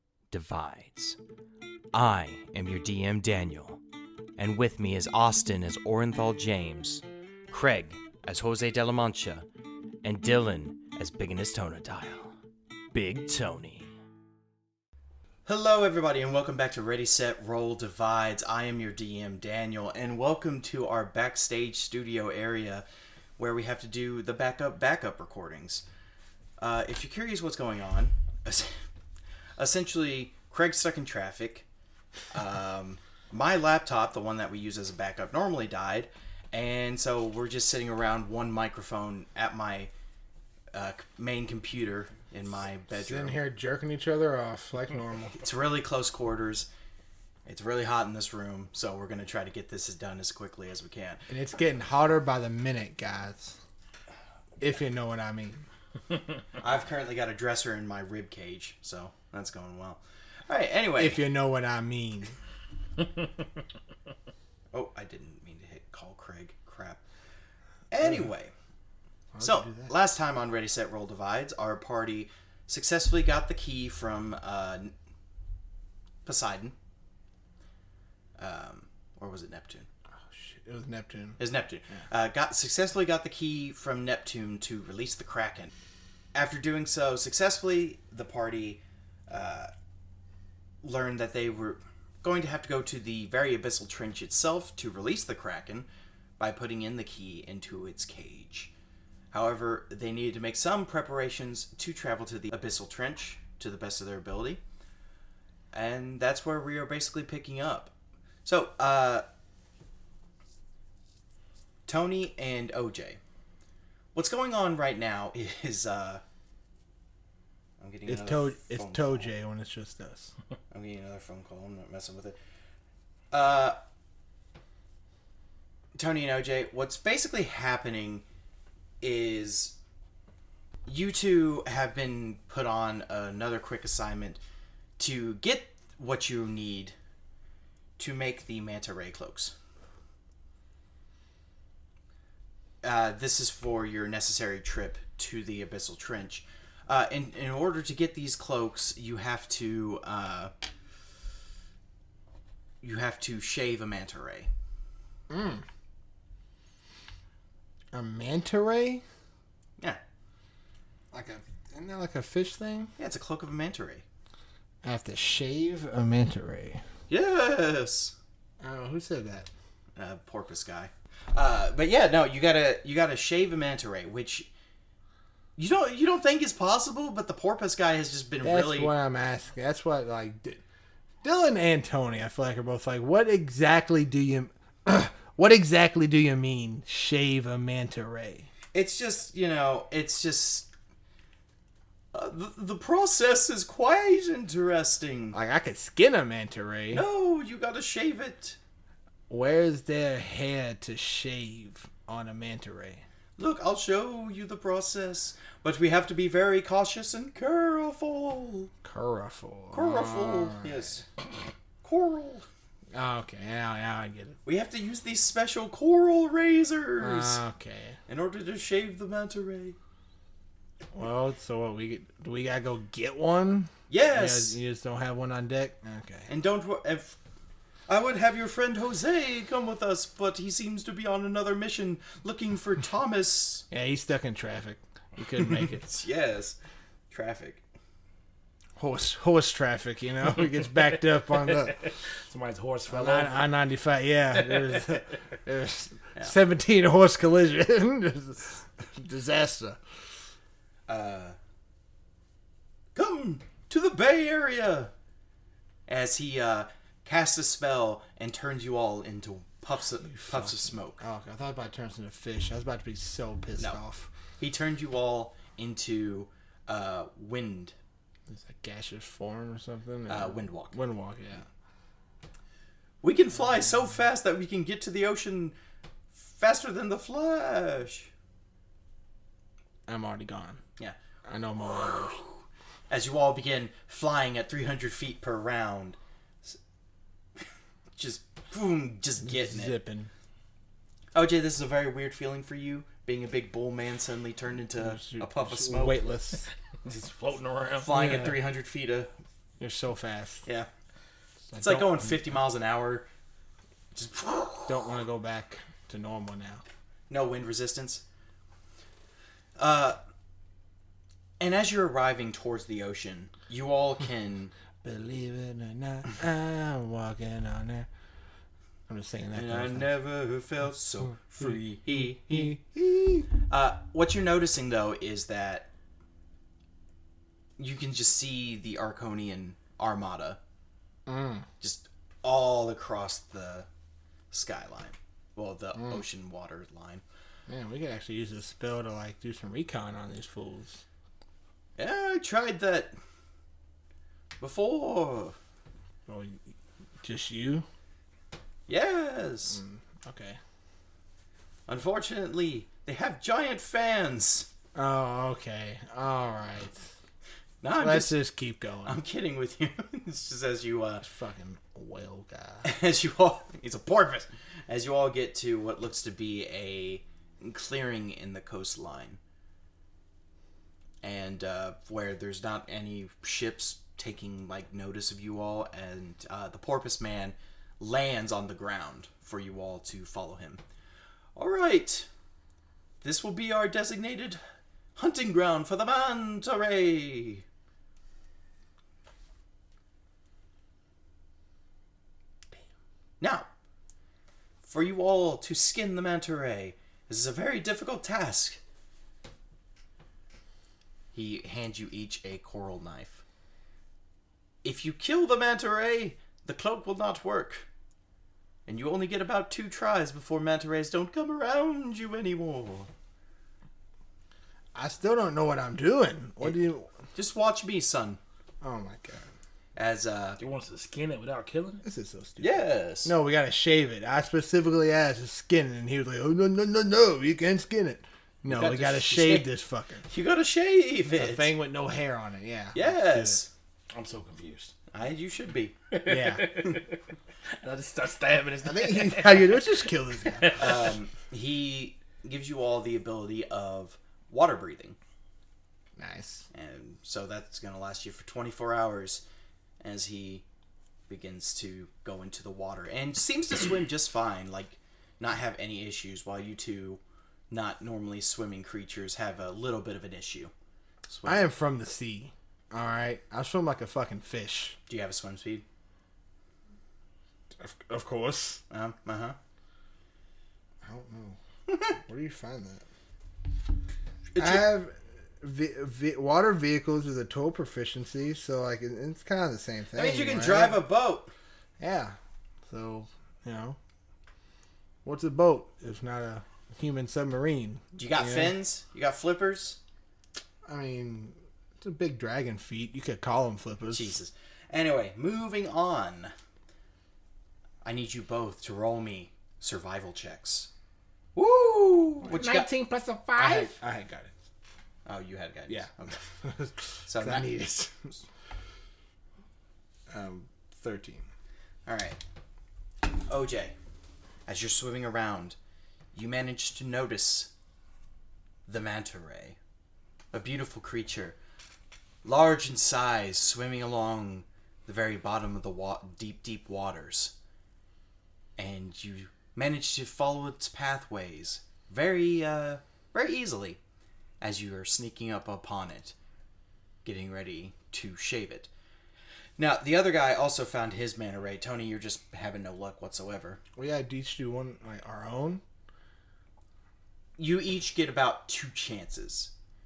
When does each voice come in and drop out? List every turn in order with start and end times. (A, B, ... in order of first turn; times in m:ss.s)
0:00.3-0:01.2 A
0:01.9-0:03.8 A
0:04.4-0:09.5 A
0:10.0-0:12.3 A
0:12.9-0:13.9 A
0:15.4-0:22.8 A
0:23.4-0:25.8 A
0:26.6-0:28.8 A
0:29.6-0:31.6 A
0:32.3-0:39.9 A
0:40.7-0:43.4 A
0:42.9-0:45.4 B
0:45.4-0:46.7 A
0:47.4-0:51.2 A
0:51.3-0:53.6 B
0:54.6-0:55.6 B
0:56.6-1:01.2 A
1:01.0-1:02.4 B
1:04.7-1:07.0 A
1:07.9-1:08.5 A
1:09.3-1:09.9 B
1:09.4-1:14.9 A
1:16.2-1:16.7 A
1:18.4-1:19.9 A
1:20.2-1:21.4 B
1:21.4-1:25.7 A
1:26.3-1:29.7 A
1:30.8-1:35.9 A
1:36.4-1:38.7 A
1:39.3-1:44.6 A
1:45.7-1:47.9 A
1:48.4-1:49.2 A
1:51.9-1:53.2 A
1:54.1-1:56.2 A
1:57.8-1:59.3 A
1:58.0-2:00.3 B
2:00.7-2:02.4 A
2:03.3-2:03.8 A
2:05.9-2:08.2 A
2:09.0-2:09.8 A
2:10.8-2:14.4 A
2:15.0-2:16.9 A
2:18.0-2:19.5 A
2:22.8-2:30.5 A
2:32.8-2:34.5 A
2:35.3-2:35.6 B
2:37.9-2:39.0 B
2:41.1-2:42.9 B
2:43.0-2:44.0 A
2:44.8-2:46.8 B
2:47.1-2:48.1 A
2:48.6-2:49.5 B
2:50.0-2:54.5 A
2:55.6-2:58.9 A
2:58.4-3:00.6 B
3:01.2-3:08.5 B
3:08.7-3:10.7 A
3:12.1-3:15.4 A
3:15.3-3:17.0 B
3:16.9-3:18.6 A
3:19.3-3:23.0 B
3:23.4-3:28.7 A
3:28.8-3:30.9 B
3:29.7-3:31.0 A
3:31.8-3:32.4 A
3:32.9-3:34.4 B
3:34.4-3:37.4 A
3:37.0-3:38.0 B
3:38.1-3:39.8 A
3:40.9-3:46.3 B
3:43.9-3:44.6 A
3:46.3-3:47.2 A
3:47.9-3:53.6 A
3:53.7-3:55.9 B
3:55.5-3:56.6 A
3:57.1-3:57.6 A
3:58.8-4:01.9 B
4:01.6-4:03.5 C
4:02.9-4:09.8 B
4:10.9-4:11.4 A
4:12.9-4:14.9 A
4:15.9-4:21.0 A
4:20.1-4:24.1 B
4:24.4-4:27.7 A
4:28.3-4:31.4 B
4:30.1-4:30.8 A
4:33.0-4:35.6 A
4:36.1-4:38.1 A
4:39.9-4:40.6 B
4:41.2-4:42.2 B
4:42.9-4:46.6 A
4:48.0-4:49.8 A
4:49.2-4:50.1 B
4:51.1-4:56.0 A
4:54.8-4:56.5 B
4:56.8-4:58.3 C
4:57.8-4:59.1 A
4:57.9-4:58.4 B
4:59.6-5:00.4 B
5:01.5-5:02.3 B
5:01.6-5:03.1 A
5:03.9-5:04.8 A
5:04.7-5:06.6 B
5:07.1-5:08.0 A
5:09.6-5:10.0 A
5:11.4-5:14.5 A
5:14.8-5:17.9 B
5:18.9-5:19.9 B
5:19.3-5:22.6 A
5:21.4-5:23.3 B
5:23.4-5:25.7 A
5:27.6-5:30.4 A
5:31.0-5:31.4 B
5:31.6-5:33.7 A
5:34.3-5:37.0 A
5:35.8-5:36.0 B
5:37.5-5:40.8 B
5:41.8-5:42.9 A
5:44.4-5:45.4 A
5:46.0-5:46.4 B
5:47.0-5:47.6 B
5:48.7-5:49.6 A
5:49.5-5:50.4 B
5:51.7-5:54.5 A
5:54.7-5:56.9 B
5:57.6-5:58.2 A
5:57.8-5:59.0 B
5:58.8-6:01.0 A
6:01.0-6:02.7 B
6:02.6-6:09.2 A
6:11.0-6:20.6 A
6:21.4-6:22.1 A
6:23.0-6:24.4 A
6:25.0-6:27.4 A
6:33.2-6:33.5 A
6:34.6-6:38.6 A
6:41.1-6:43.2 A
6:44.6-6:47.7 A
6:48.7-6:52.9 A
6:54.7-6:56.9 B
6:57.1-6:58.2 A
6:58.6-6:59.3 B
6:59.8-7:00.4 A
7:00.4-7:01.8 C
7:01.8-7:10.0 B
7:02.4-7:03.1 A
7:08.5-7:09.5 C
7:10.1-7:11.5 A
7:11.1-7:13.4 B
7:12.7-7:13.5 A
7:13.9-7:14.7 C
7:14.9-7:15.8 A
7:15.9-7:20.9 C
7:16.0-7:16.5 B
7:18.6-7:20.7 B
7:20.5-7:25.0 A
7:26.0-7:26.5 B
7:26.5-7:29.2 A
7:29.8-7:30.4 A
7:31.1-7:40.5 A
7:41.1-7:41.5 A
7:41.2-7:44.8 B
7:44.9-7:45.6 A
7:47.6-7:48.6 B
7:48.7-7:49.4 A
7:50.8-7:51.4 B
7:51.9-7:52.8 B
7:54.3-7:54.7 A
7:54.4-8:00.8 B
7:59.9-8:01.3 A
8:01.8-8:03.8 B
8:05.0-8:08.5 B
8:08.0-8:09.8 A
8:10.6-8:14.1 B
8:13.9-8:16.3 A
8:17.8-8:20.7 A
8:21.3-8:22.7 A
8:22.2-8:24.3 B
8:23.4-8:23.7 A
8:25.0-8:26.2 A
8:25.7-8:28.2 B
8:27.0-8:27.5 A
8:30.1-8:31.2 B
8:31.9-8:32.2 A
8:33.3-8:33.8 A
8:34.5-8:35.6 A
8:36.1-8:37.5 A
8:38.7-8:39.6 A
8:40.3-8:41.4 A
8:42.2-8:47.3 A
8:48.6-8:53.8 A
8:54.4-8:56.1 A
8:57.0-8:58.7 A
8:59.6-9:03.6 A
9:03.8-9:05.6 B
9:07.4-9:09.5 A